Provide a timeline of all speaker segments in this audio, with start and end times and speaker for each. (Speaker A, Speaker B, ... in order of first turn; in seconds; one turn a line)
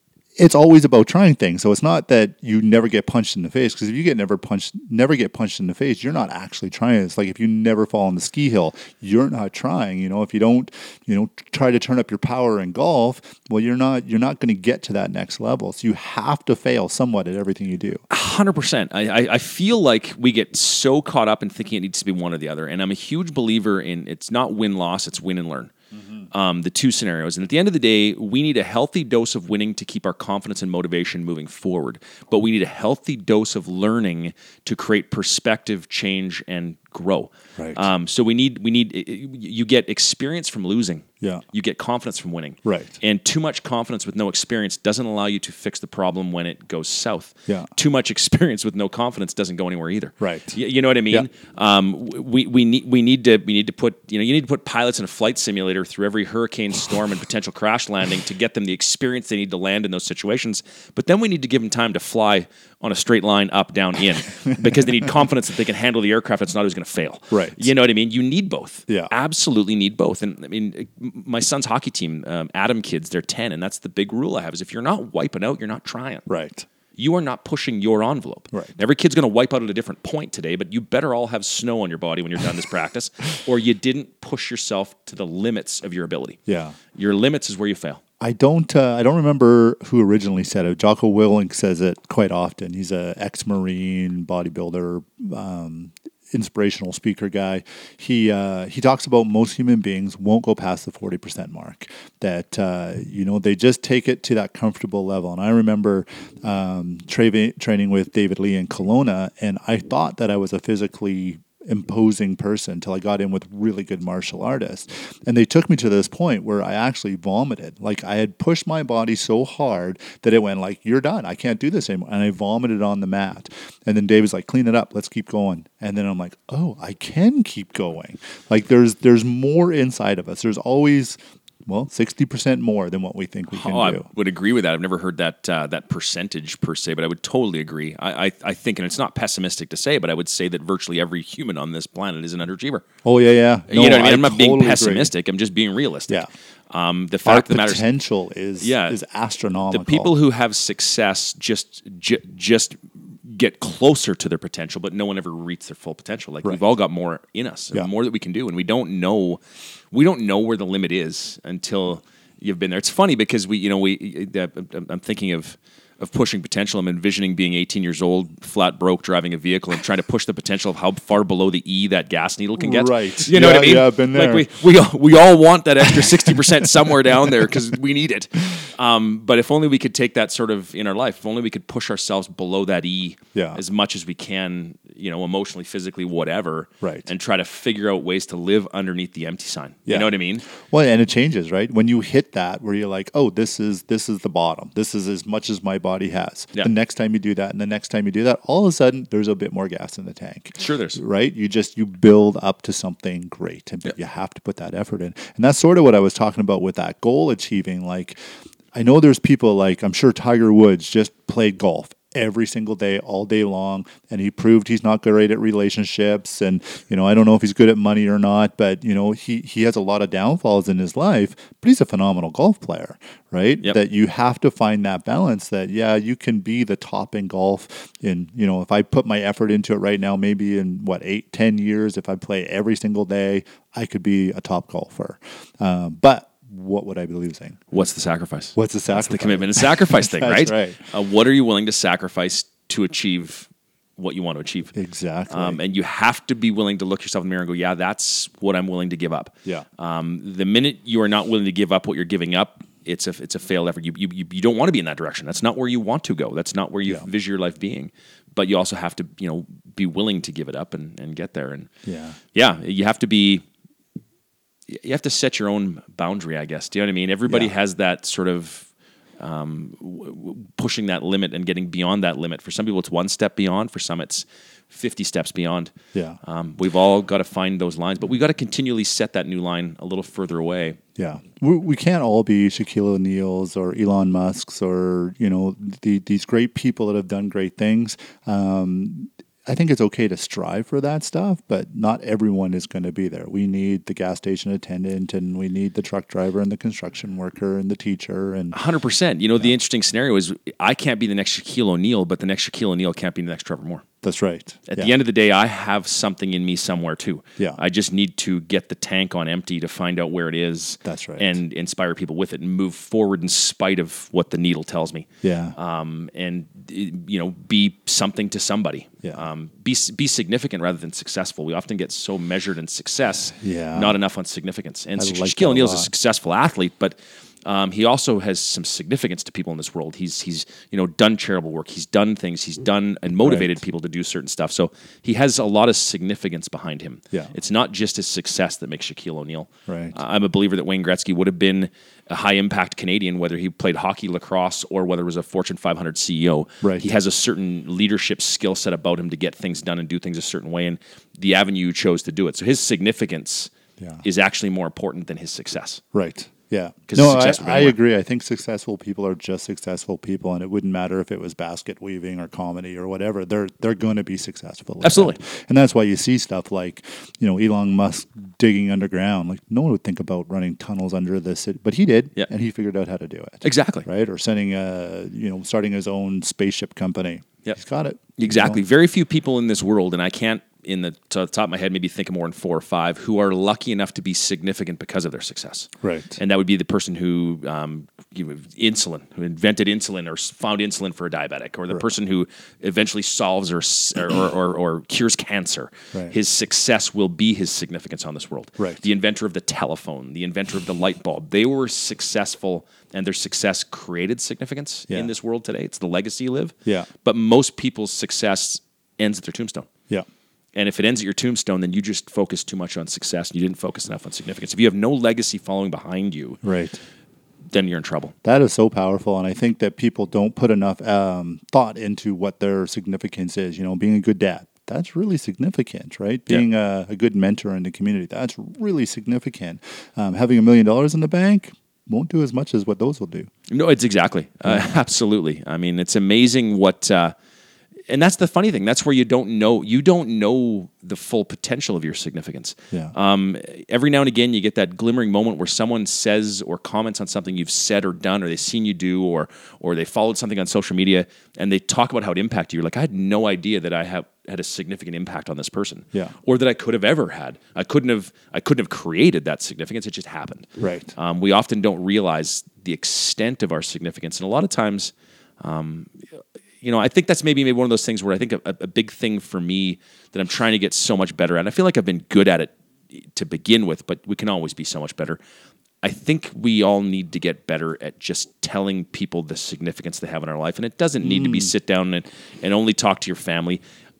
Speaker A: 0.4-18.0
Speaker B: 18.1-25.7
Speaker B: 26.3-76.2
Speaker A: 37.6-37.9
Speaker A: 42.6-43.0
Speaker A: 50.2-50.6
Speaker A: 67.3-67.7
Speaker A: 76.3-76.7
Speaker B: 77.0-86.4
Speaker A: 78.5-78.8
Speaker A: 86.5-86.8
Speaker B: 86.9-88.0
Speaker A: 88.2-134.1
Speaker B: 133.5-142.8
Speaker A: 143.0-145.1
Speaker B: 143.7-147.8
Speaker A: 147.2-150.1
Speaker B: 148.6-149.0
Speaker B: 149.7-190.4
Speaker A: 172.6-174.5
Speaker A: 176.0-177.1
Speaker A: 183.3-183.6
Speaker A: 186.8-187.1
Speaker A: 189.8-208.2
Speaker B: 200.6-201.0
Speaker A: 208.7-237.7
Speaker B: 237.7-244.7
Speaker A: 238.5-240.8
Speaker A: 244.7-245.6
Speaker B: 245.3-261.7
Speaker A: 261.9-262.2
Speaker B: 262.3-263.4
Speaker B: 264.7-268.7
Speaker B: 269.2-280.8
Speaker A: 280.9-298.6
Speaker B: 298.5-303.8
Speaker A: 304.0-304.9
Speaker B: 304.7-353.5
Speaker A: 310.8-311.4
Speaker A: 315.2-315.6
Speaker A: 323.4-324.0
Speaker A: 325.0-325.9
Speaker A: 333.2-333.6
Speaker A: 339.7-340.0
Speaker A: 346.6-346.9
Speaker B: 354.0-355.8
Speaker A: 355.9-378.6
Speaker B: 356.9-357.8
Speaker B: 364.8-365.2
Speaker B: 373.4-373.9
Speaker B: 378.2-409.7
Speaker A: 385.8-386.2
Speaker A: 398.6-398.8
Speaker B: 410.5-416.4
Speaker A: 416.4-416.8
Speaker B: 417.5-418.1
Speaker A: 418.2-433.3
Speaker B: 433.5-437.1
Speaker A: 434.4-434.7
Speaker B: 437.9-465.9
Speaker A: 460.6-460.9
Speaker B: 466.6-475.2
Speaker B: 475.8-483.6
Speaker A: 481.0-481.5